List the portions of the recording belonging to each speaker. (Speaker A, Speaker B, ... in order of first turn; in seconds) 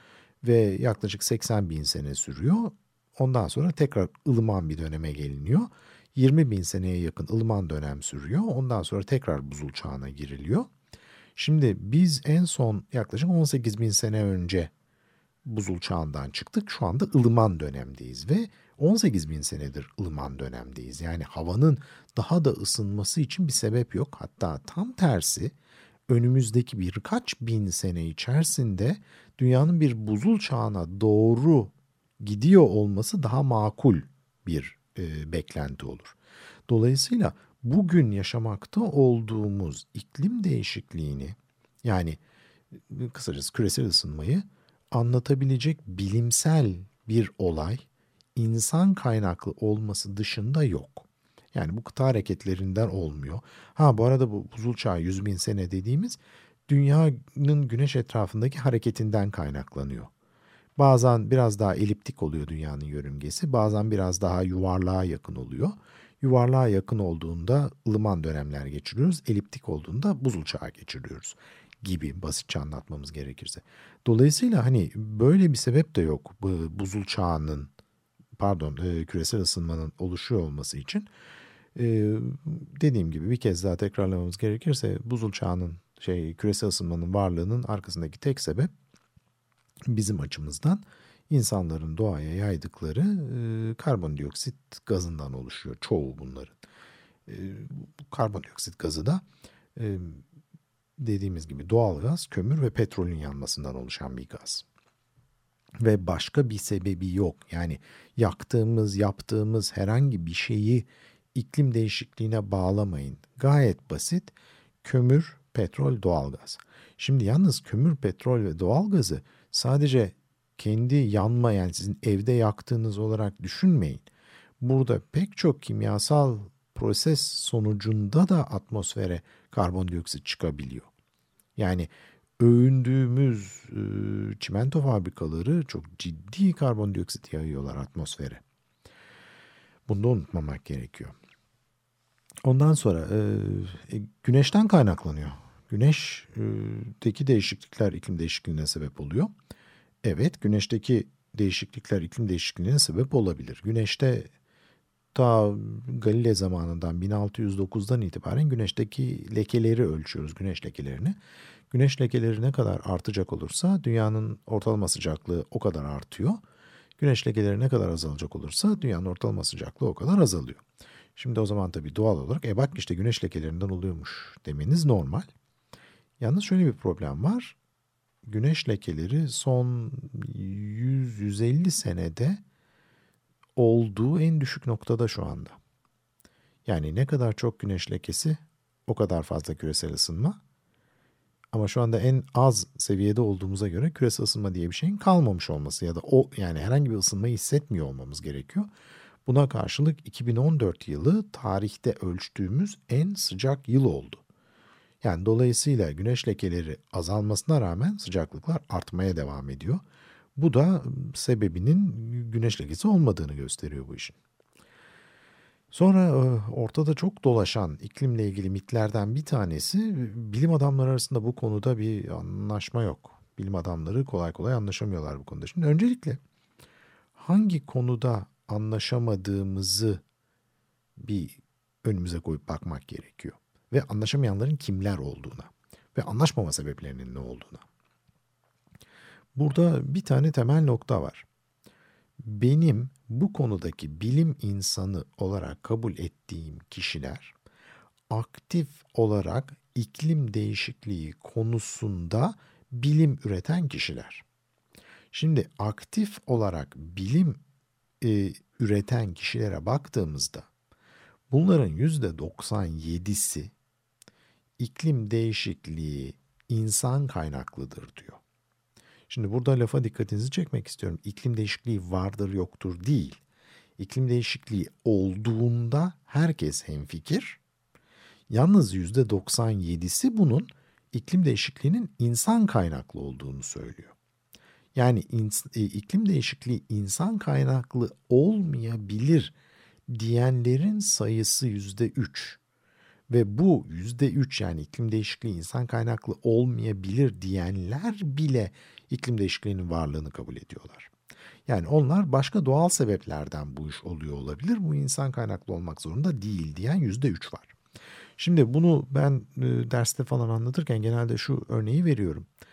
Speaker A: 0.4-10.7, 11.3-14.7, 15.4-25.5, 26.1-36.1, 36.7-42.2, 42.7-47.8, 48.4-60.1, 60.8-77.7, 78.4-81.1, 81.8-88.7, 89.9-96.5, 97.3-99.2, 99.8-100.2, 101.0-104.6, 105.8-114.3, 114.8-124.0, 124.6-130.9, 131.6-138.4, 139.9-141.1, 142.4-149.3, 150.0-154.3, 155.1-161.2, 161.7-166.4, 167.0-170.6, 171.2-175.3, 176.2-177.6, 178.2-182.4, 183.6-185.6, 186.7-190.4, 191.5-198.7, 199.2-204.2, 205.0-209.8, 210.3-214.2, 215.7-226.2, 227.2-230.0, 231.0-237.6, 239.3-241.2, 242.2-247.3, 248.1-254.2, 255.1-257.4, 258.0-260.5, 261.3-263.5, 264.6-268.2, 269.1-273.2, 273.8-277.4, 278.3-283.9, 284.7-289.3, 289.9-292.4, 293.1-300.9, 301.5-307.5, 308.2-312.3